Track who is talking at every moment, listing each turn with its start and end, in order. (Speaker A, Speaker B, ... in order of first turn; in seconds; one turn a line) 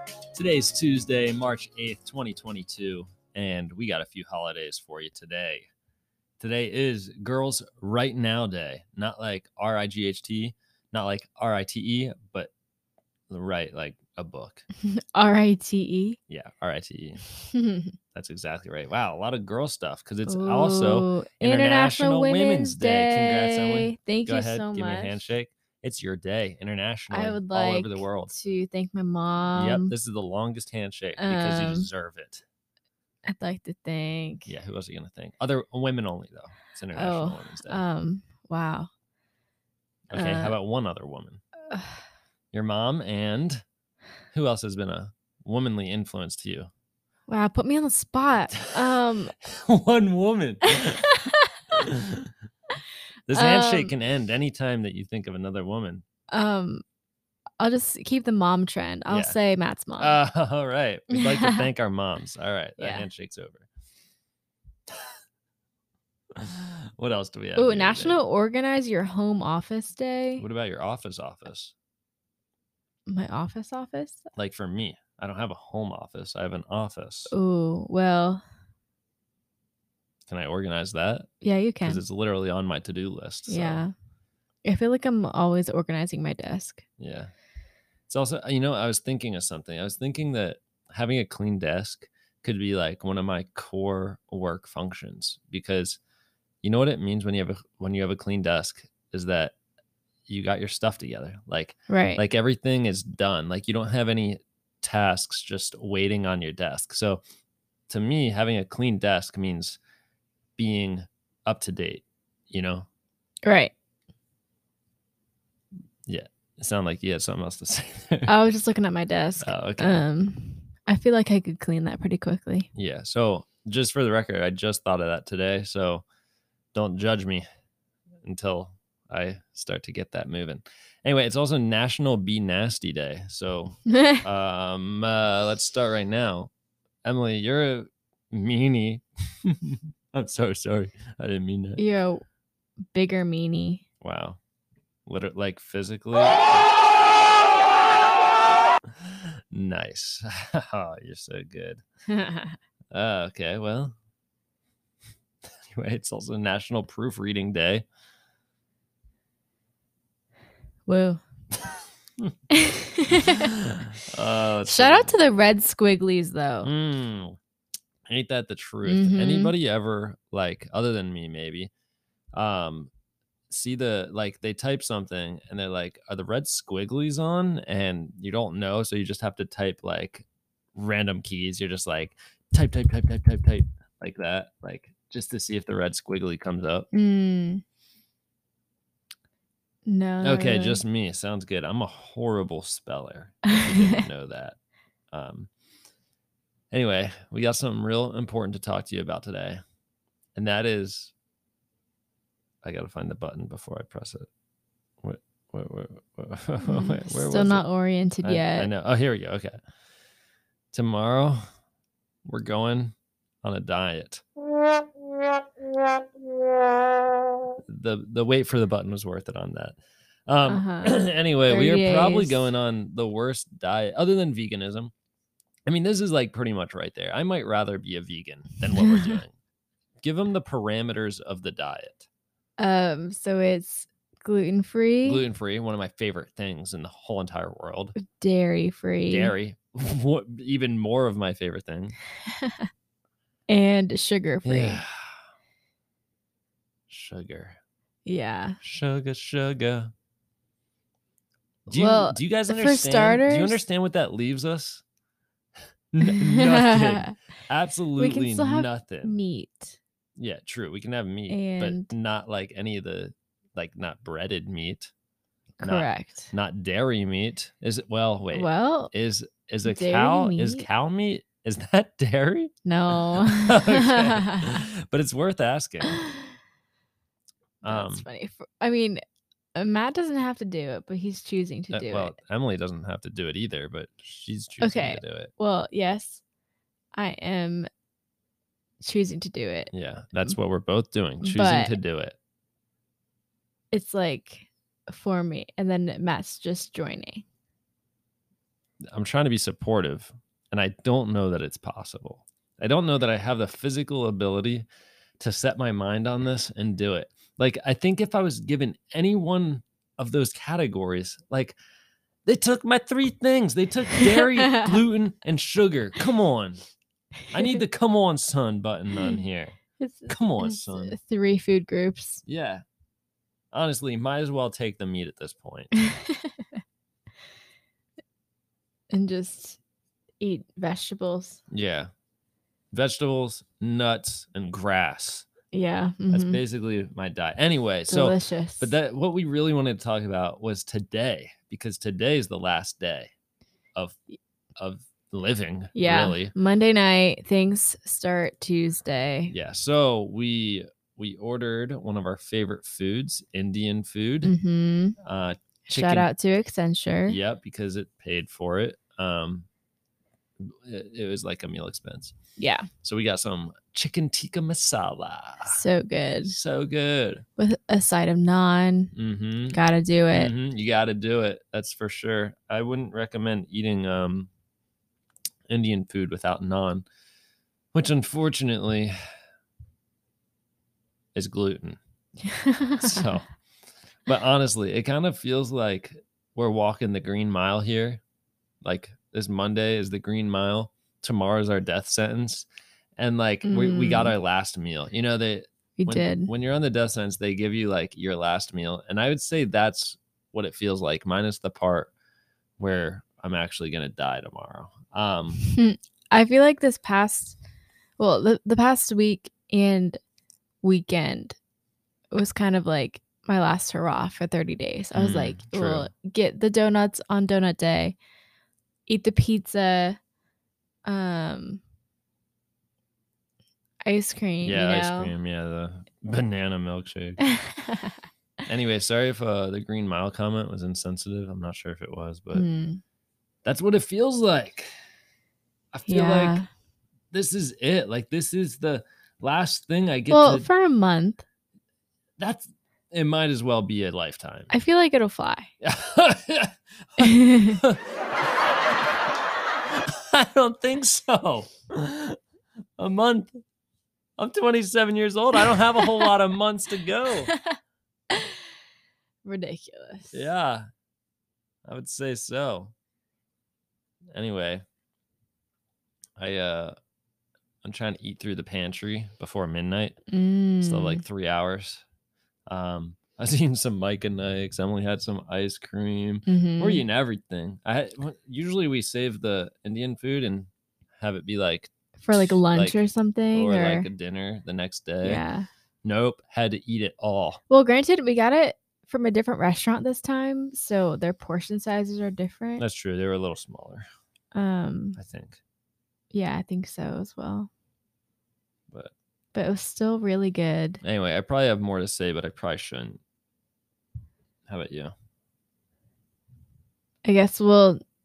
Speaker A: 0.3-5.7
Speaker A: 6.4-12.5
Speaker A: 13.3-14.6
Speaker B: 14.8-16.2
Speaker A: 16.3-17.2
Speaker B: 17.4-17.9
Speaker A: 18.1-28.3
Speaker B: 20.2-25.2
Speaker B: 27.1-29.9
Speaker A: 29.5-32.4
Speaker B: 31.2-31.9
Speaker B: 33.3-34.5
Speaker A: 34.5-37.8
Speaker B: 36.9-38.9
Speaker A: 40.1-41.4
Speaker B: 40.1-40.6
Speaker B: 41.7-42.0
Speaker A: 42.5-43.6
Speaker A: 44.3-46.7
Speaker B: 47.3-49.3
Speaker A: 48.7-51.0
Speaker B: 50.8-51.5
Speaker A: 51.8-52.3
Speaker A: 53.3-56.0
Speaker B: 53.3-53.9
Speaker B: 56.3-56.8
Speaker B: 57.6-60.2
Speaker A: 59.1-59.4
Speaker A: 60.0-63.7
Speaker B: 61.1-61.6
Speaker B: 62.8-63.1
Speaker A: 66.3-68.2
Speaker B: 67.5-70.5
Speaker A: 70.4-71.7
Speaker B: 73.1-74.3
Speaker A: 74.3-77.3
Speaker B: 77.3-78.4
Speaker A: 80.3-81.3
Speaker B: 81.4-82.0
Speaker A: 81.8-83.8
Speaker B: 83.5-83.9
Speaker B: 84.6-86.8
Speaker A: 87.0-87.3
Speaker A: 88.1-96.0
Speaker A: 96.6-99.5
Speaker A: 100.3-107.2
Speaker B: 101.9-102.2
Speaker A: 107.9-109.8
Speaker A: 110.6-112.9
Speaker B: 113.4-113.7
Speaker A: 116.1-118.3
Speaker B: 118.3-122.7
Speaker A: 119.4-120.0
Speaker A: 122.8-126.0
Speaker A: 126.7-127.4
Speaker A: 128.2-136.5
Speaker B: 133.9-134.2
Speaker A: 137.0-141.8
Speaker B: 141.8-142.2
Speaker B: 142.9-143.8
Speaker A: 144.0-144.4
Speaker A: 145.1-146.8
Speaker A: 149.0-151.8
Speaker B: 152.1-152.6
Speaker A: 152.9-153.9
Speaker A: 155.7-157.8
Speaker B: 160.8-161.2
Speaker B: 162.5-163.5
Speaker A: 163.1-165.2
Speaker B: 164.6-166.7
Speaker A: 166.6-167.4
Speaker A: 168.1-171.7
Speaker B: 168.8-169.5
Speaker A: 172.3-172.9
Speaker A: 173.5-186.9
Speaker B: 186.9-187.6
Speaker B: 189.8-190.8
Speaker A: 190.2-194.6
Speaker B: 193.5-194.0
Speaker A: 195.1-195.5
Speaker A: 196.7-199.6
Speaker A: 200.3-201.1
Speaker A: 202.6-204.3
Speaker A: 205.0-207.6
Speaker B: 206.6-208.7
Speaker A: 208.2-209.6
Speaker A: 210.7-211.4
Speaker A: 212.2-214.2
Speaker A: 217.7-224.9
Speaker B: 220.5-222.5
Speaker A: 225.7-229.3
Speaker B: 228.7-229.2
Speaker A: 230.0-232.1
Speaker B: 232.6-235.2
Speaker A: 235.0-237.9
Speaker B: 238.0-239.3
Speaker A: 239.1-242.0
Speaker B: 243.5-244.8
Speaker A: 244.4-245.1
Speaker A: 246.9-247.6
Speaker B: 248.0-248.6
Speaker A: 248.6-249.9
Speaker A: 251.7-254.8
Speaker B: 251.7-253.6
Speaker A: 255.9-259.2
Speaker B: 256.0-257.1
Speaker B: 257.9-259.8
Speaker A: 260.2-264.9
Speaker B: 261.3-261.9
Speaker B: 265.6-266.3
Speaker A: 265.6-276.0
Speaker B: 268.3-268.9
Speaker B: 269.6-270.7
Speaker B: 272.6-274.6
Speaker B: 277.6-279.0
Speaker A: 277.6-278.1
Speaker B: 279.5-282.1
Speaker A: 281.7-285.3
Speaker B: 284.6-286.2
Speaker B: 286.9-287.7
Speaker B: 288.8-290.4
Speaker A: 289.7-292.2
Speaker B: 291.2-291.8
Speaker B: 293.7-297.2
Speaker A: 298.9-304.6
Speaker A: 305.2-311.5
Speaker A: 312.2-316.6
Speaker B: 314.0-314.7
Speaker A: 317.3-319.6
Speaker B: 319.8-322.2
Speaker A: 320.1-320.9
Speaker A: 322.2-322.6
Speaker A: 323.5-325.7
Speaker B: 325.8-326.5
Speaker B: 328.9-329.6
Speaker B: 330.2-331.4
Speaker A: 331.5-331.9
Speaker A: 332.7-335.3
Speaker B: 335.5-336.4
Speaker A: 336.1-343.1
Speaker B: 337.9-338.7
Speaker A: 344.6-346.3
Speaker B: 345.7-349.3
Speaker A: 349.3-354.3
Speaker B: 354.2-355.0
Speaker A: 355.0-356.1
Speaker B: 355.7-357.2
Speaker A: 357.1-359.4
Speaker A: 360.4-362.1
Speaker B: 362.4-362.7
Speaker A: 362.8-365.6
Speaker B: 365.4-366.3
Speaker A: 366.3-367.2
Speaker B: 367.4-368.9
Speaker A: 368.9-369.6
Speaker B: 369.5-370.3
Speaker A: 370.1-374.3
Speaker A: 375.5-376.9
Speaker A: 377.7-378.9
Speaker A: 381.1-381.8
Speaker B: 382.3-382.9
Speaker A: 382.8-383.2
Speaker A: 384.1-388.0
Speaker A: 388.6-392.5
Speaker A: 393.0-401.9
Speaker B: 393.4-394.1
Speaker B: 395.8-396.3
Speaker A: 402.6-405.4
Speaker B: 405.4-407.4
Speaker B: 408.0-410.0
Speaker B: 410.6-411.4
Speaker B: 412.1-418.0
Speaker A: 414.9-415.9
Speaker B: 418.9-420.0
Speaker B: 420.8-421.6
Speaker B: 423.8-425.1
Speaker A: 424.4-427.2
Speaker B: 427.2-428.0
Speaker A: 428.5-432.5
Speaker B: 432.3-432.8
Speaker A: 433.4-434.7
Speaker A: 435.7-436.4
Speaker B: 435.9-436.5
Speaker A: 437.1-440.5
Speaker B: 440.1-441.2
Speaker A: 442.2-444.5
Speaker B: 444.5-445.5
Speaker A: 445.6-447.8
Speaker B: 447.0-447.6
Speaker A: 449.7-452.2
Speaker A: 452.8-453.4
Speaker A: 454.2-457.3
Speaker B: 455.8-456.1
Speaker B: 457.3-457.6
Speaker B: 458.1-458.4
Speaker B: 459.2-460.3
Speaker A: 460.1-460.6
Speaker A: 461.7-462.7
Speaker A: 464.1-464.6
Speaker A: 466.2-466.7
Speaker A: 467.6-470.0
Speaker B: 470.1-471.0
Speaker A: 470.6-471.8
Speaker A: 472.5-482.8
Speaker B: 476.2-476.8
Speaker B: 482.0-483.9
Speaker A: 483.3-485.2
Speaker B: 485.0-485.5
Speaker A: 485.8-487.4
Speaker B: 487.5-492.6
Speaker A: 492.6-493.9
Speaker B: 494.3-495.0
Speaker A: 495.0-495.4
Speaker B: 496.1-497.5
Speaker B: 499.3-500.8
Speaker A: 500.8-503.0
Speaker A: 504.5-504.9
Speaker B: 507.0-507.8